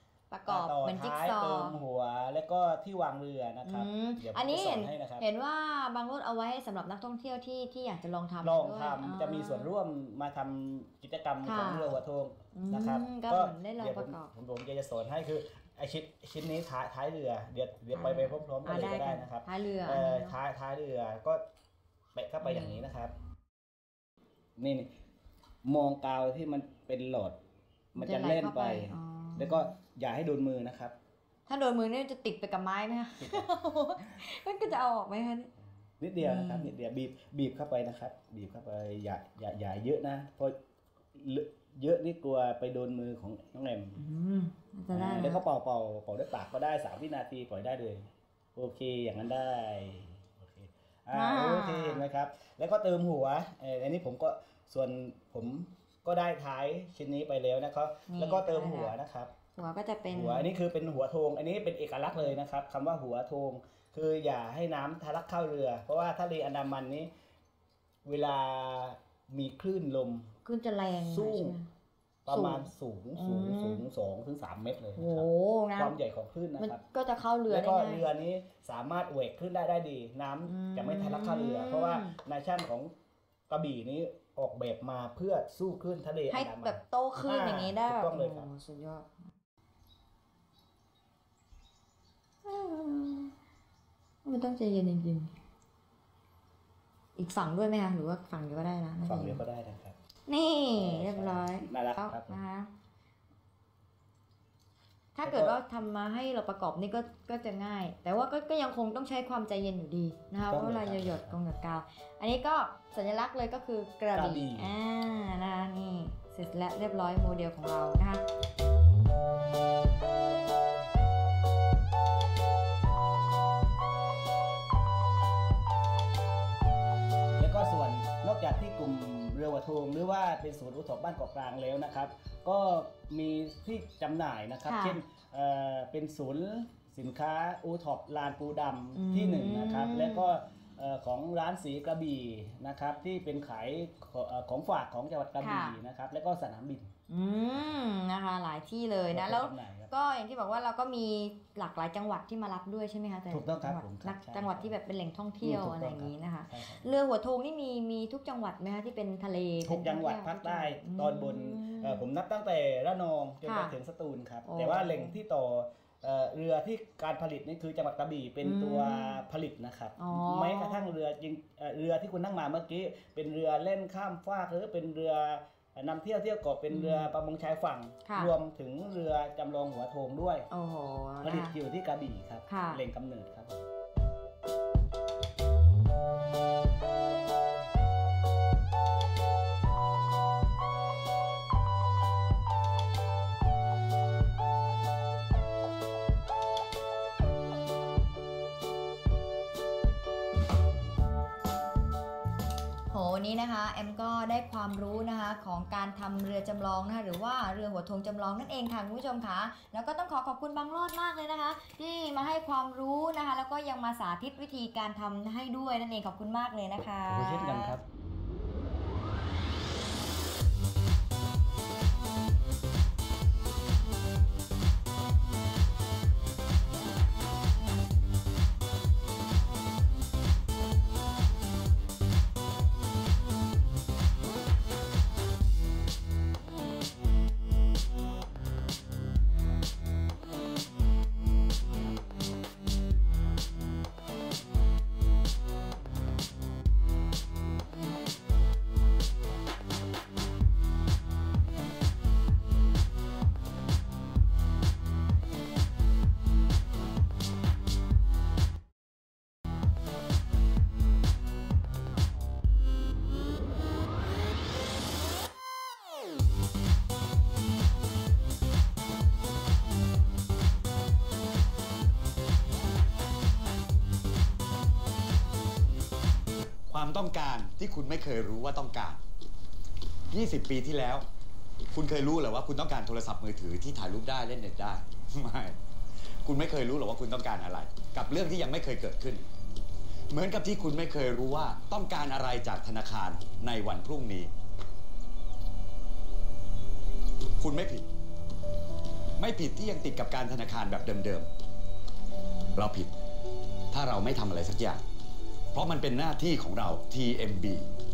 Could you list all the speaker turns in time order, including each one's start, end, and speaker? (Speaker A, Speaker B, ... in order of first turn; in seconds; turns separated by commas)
Speaker A: 0.3-1.8, Speaker B: 0.5-5.2, Speaker A: 3.6-9.7, Speaker B: 8.4-21.4, Speaker A: 11.4-11.9, Speaker A: 12.5-14.3, Speaker A: 17.9-20.3, Speaker B: 22.1-23.1, Speaker A: 22.4-22.8, Speaker B: 24.6-24.9, Speaker B: 25.6-27.4, Speaker B: 27.9-30.9, Speaker A: 27.9-29.7, Speaker A: 31.5-35.5, Speaker B: 33.2-33.5, Speaker B: 36.0-40.5, Speaker A: 36.2-36.7, Speaker B: 41.1-44.0, Speaker A: 44.0-45.4, Speaker B: 44.9-59.3, Speaker A: 51.1-52.0, Speaker A: 58.1-58.9, Speaker A: 59.5-60.5, Speaker B: 60.1-67.1, Speaker B: 68.0-70.3, Speaker A: 70.4-71.7, Speaker B: 71.0-71.5, Speaker B: 72.2-76.8, Speaker A: 72.3-73.8, Speaker A: 75.0-76.0, Speaker A: 76.6-78.0, Speaker B: 77.5-82.9, Speaker A: 80.4-82.2, Speaker B: 83.5-88.5, Speaker A: 86.3-89.2, Speaker A: 92.4-93.3, Speaker A: 94.2-95.3, Speaker A: 97.2-99.4, Speaker B: 99.0-100.0, Speaker A: 100.3-102.7, Speaker B: 100.8-102.4, Speaker A: 105.1-118.2, Speaker B: 105.2-105.5, Speaker B: 110.5-111.3, Speaker B: 114.1-114.7, Speaker B: 127.3-146.9, Speaker A: 134.7-135.0, Speaker A: 138.9-140.3, Speaker A: 145.4-145.8, Speaker A: 147.1-162.0, Speaker B: 149.1-149.9, Speaker B: 153.3-154.7, Speaker B: 155.4-156.8, Speaker B: 159.6-180.5, Speaker A: 163.4-163.7, Speaker A: 164.4-165.1, Speaker A: 168.4-169.2, Speaker A: 170.0-170.9, Speaker A: 176.7-177.1, Speaker A: 178.0-178.3, Speaker A: 180.5-181.5, Speaker B: 181.2-183.6, Speaker A: 182.5-182.8, Speaker A: 202.9-217.8, Speaker B: 217.1-217.8, Speaker C: 276.7-279.0, Speaker C: 280.1-281.0, Speaker C: 281.7-285.5, Speaker C: 286.2-289.2, Speaker C: 290.1-294.3, Speaker C: 297.4-297.8, Speaker C: 299.2-301.3, Speaker C: 302.5-302.9, Speaker C: 303.7-304.8, Speaker C: 305.5-307.6